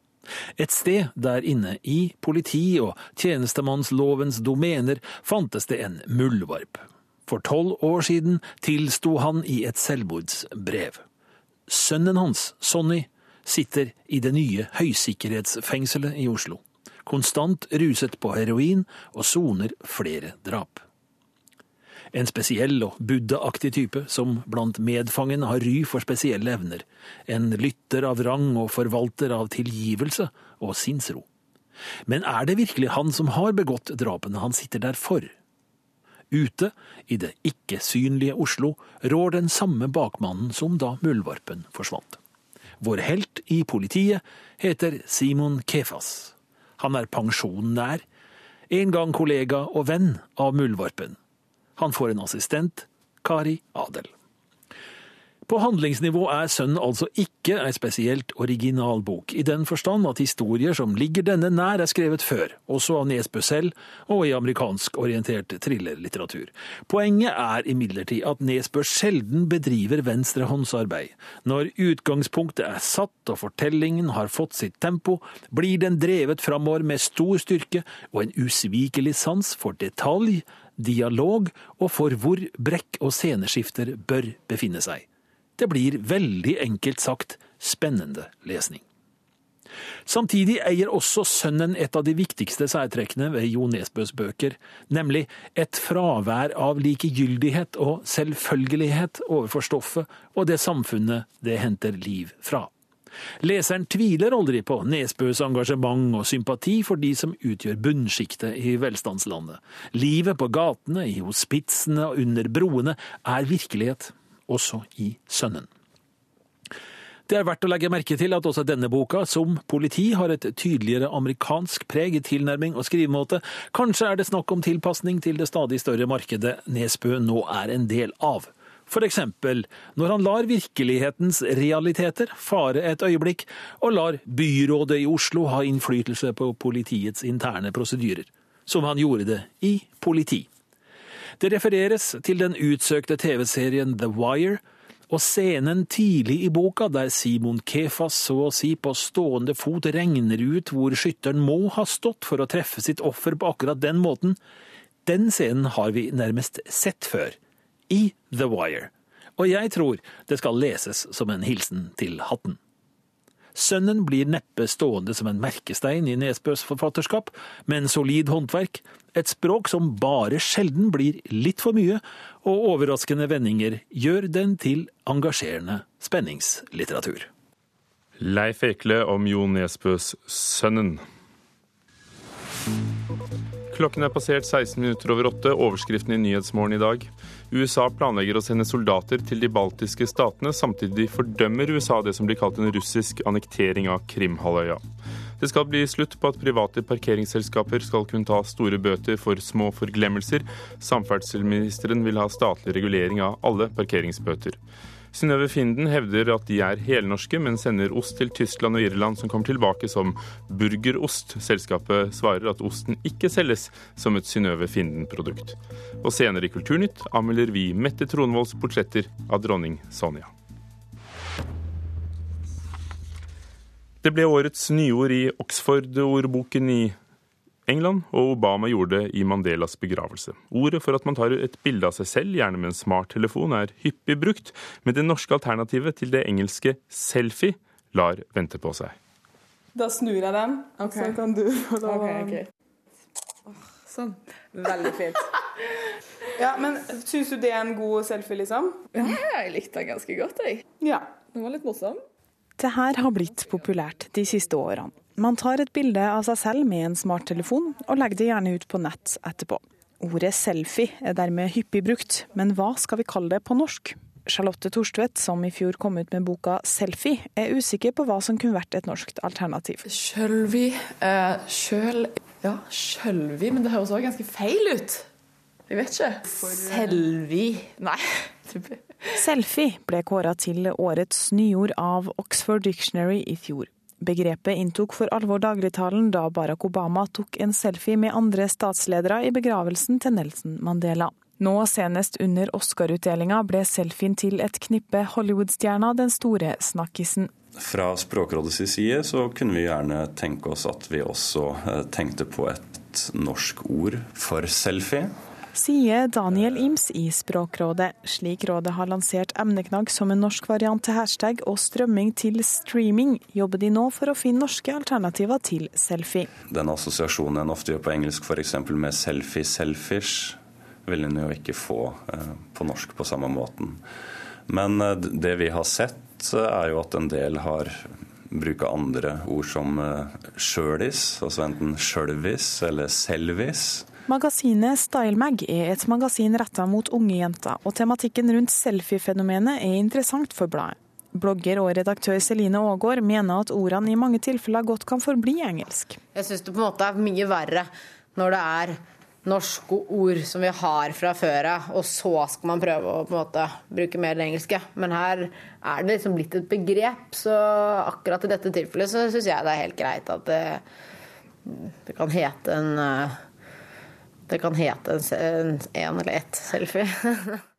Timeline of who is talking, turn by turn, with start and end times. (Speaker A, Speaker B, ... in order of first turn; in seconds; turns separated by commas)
Speaker A: 0.6-11.0, Speaker A: 11.7-20.8, Speaker A: 22.1-31.3, Speaker A: 32.1-35.3, Speaker A: 36.3-42.2, Speaker A: 42.8-48.0, Speaker A: 48.7-51.2, Speaker A: 51.8-54.1, Speaker A: 55.5-85.1, Speaker A: 85.6-88.8, Speaker A: 90.1-102.7, Speaker A: 103.4-115.7, Speaker A: 117.3-140.5, Speaker A: 141.4-154.4, Speaker A: 155.1-157.4, Speaker A: 157.9-162.6, Speaker A: 163.6-177.3, Speaker B: 178.2-181.0, Speaker B: 183.7-194.8, Speaker B: 195.4-204.6, Speaker B: 205.1-220.3, Speaker B: 224.0-227.0, Speaker B: 227.7-238.9, Speaker C: 239.8-242.4, Speaker D: 240.8-241.2, Speaker D: 241.8-242.4, Speaker D: 243.9-244.1, Speaker C: 244.6-245.2, Speaker C: 246.4-248.9, Speaker D: 248.9-250.6, Speaker C: 250.8-251.2, Speaker D: 251.3-252.0, Speaker E: 252.6-269.8, Speaker D: 269.9-275.1, Speaker D: 275.7-279.1, Speaker C: 276.5-276.8, Speaker E: 279.2-297.3, Speaker F: 297.6-305.1, Speaker E: 305.6-316.3, Speaker F: 316.5-323.8, Speaker F: 324.5-333.9, Speaker E: 334.1-346.0, Speaker G: 346.1-360.6, Speaker G: 361.5-363.2, Speaker G: 364.3-367.4